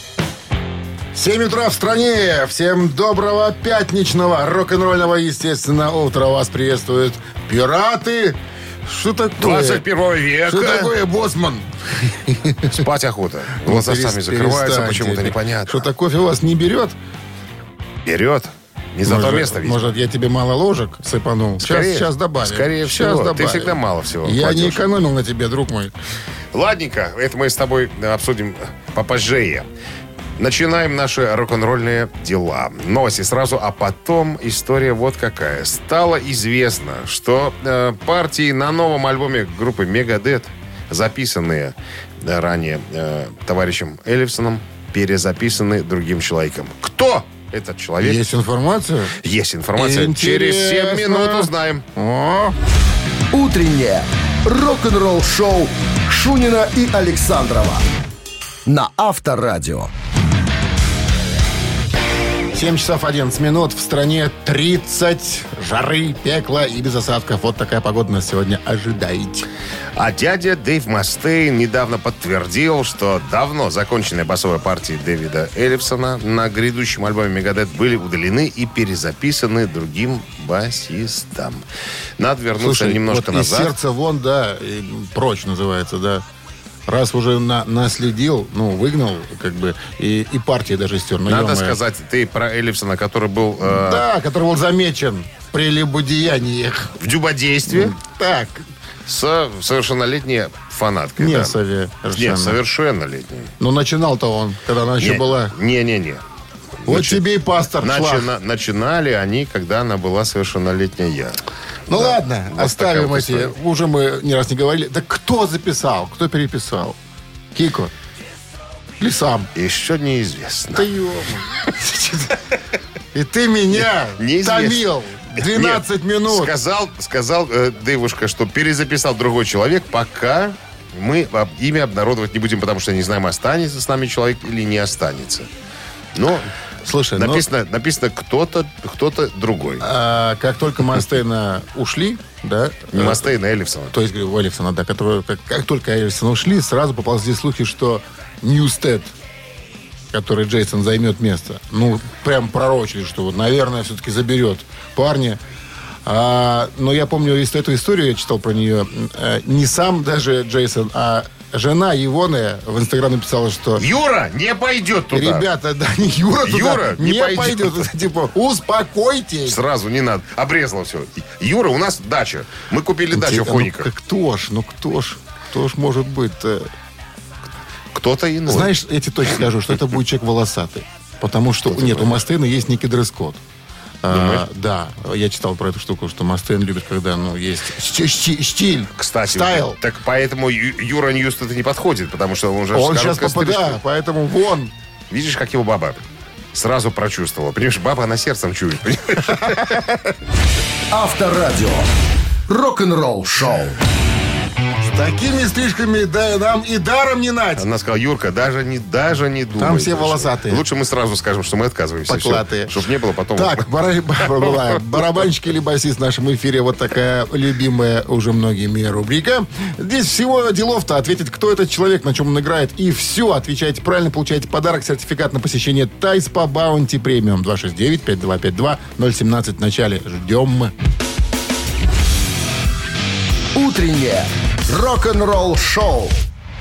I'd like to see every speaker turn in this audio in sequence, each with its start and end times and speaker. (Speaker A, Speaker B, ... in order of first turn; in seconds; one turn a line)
Speaker A: 1.1-9.8
Speaker B: 9.4-10.9
Speaker A: 10.4-12.8
Speaker B: 12.7-15.9
Speaker A: 13.6-17.0
Speaker B: 18.1-19.9
Speaker A: 19.0-25.9
Speaker B: 21.6-24.8
Speaker B: 26.5-29.7
Speaker B: 30.4-48.2
Speaker A: 48.0-49.2
Speaker B: 49.2-51.9
Speaker A: 49.7-52.5
Speaker C: 53.3-57.8
Speaker C: 58.6-59.9
Speaker A: 62.5-69.5
Speaker B: 69.9-81.6
Speaker B: 82.2-83.7
Speaker A: 82.6-86.2
Speaker A: 86.9-91.8
Speaker B: 91.2-94.0
Speaker A: 93.6-96.9
Speaker B: 97.0-97.9
Speaker A: 97.7-98.7
Speaker B: 99.0-101.6
Speaker A: 101.2-102.6
Speaker B: 102.1-103.5
Speaker A: 103.6-105.5
Speaker B: 105.0-106.2
Speaker B: 106.8-107.2
Speaker A: 106.8-108.3
Speaker B: 107.8-113.5
Speaker A: 111.9-117.0
Speaker A: 117.5-117.9
Speaker A: 119.0-119.5
Speaker B: 119.5-120.9
Speaker A: 120.7-122.5
Speaker A: 123.1-126.5
Speaker B: 123.8-124.8
Speaker B: 125.4-135.5
Speaker B: 136.1-136.5
Speaker A: 136.8-137.4
Speaker B: 137.2-139.8
Speaker A: 139.8-143.3
Speaker B: 142.9-143.9
Speaker A: 143.9-149.1
Speaker A: 150.1-155.4
Speaker A: 156.0-163.8
Speaker B: 163.8-165.5
Speaker A: 165.1-169.6
Speaker B: 166.4-167.9
Speaker B: 169.4-173.9
Speaker A: 173.1-176.7
Speaker B: 177.9-178.7
Speaker A: 178.5-183.4
Speaker B: 181.7-182.2
Speaker A: 184.0-189.8
Speaker B: 184.1-184.4
Speaker B: 189.0-193.8
Speaker A: 192.7-194.7
Speaker B: 195.1-196.0
Speaker B: 196.5-199.8
Speaker A: 199.3-200.1
Speaker C: 200.9-201.9
Speaker C: 202.5-203.8
Speaker A: 204.8-207.7
Speaker B: 207.6-213.6
Speaker A: 209.6-210.6
Speaker A: 212.1-212.8
Speaker A: 213.3-230.7
Speaker B: 214.3-214.8
Speaker C: 233.5-236.2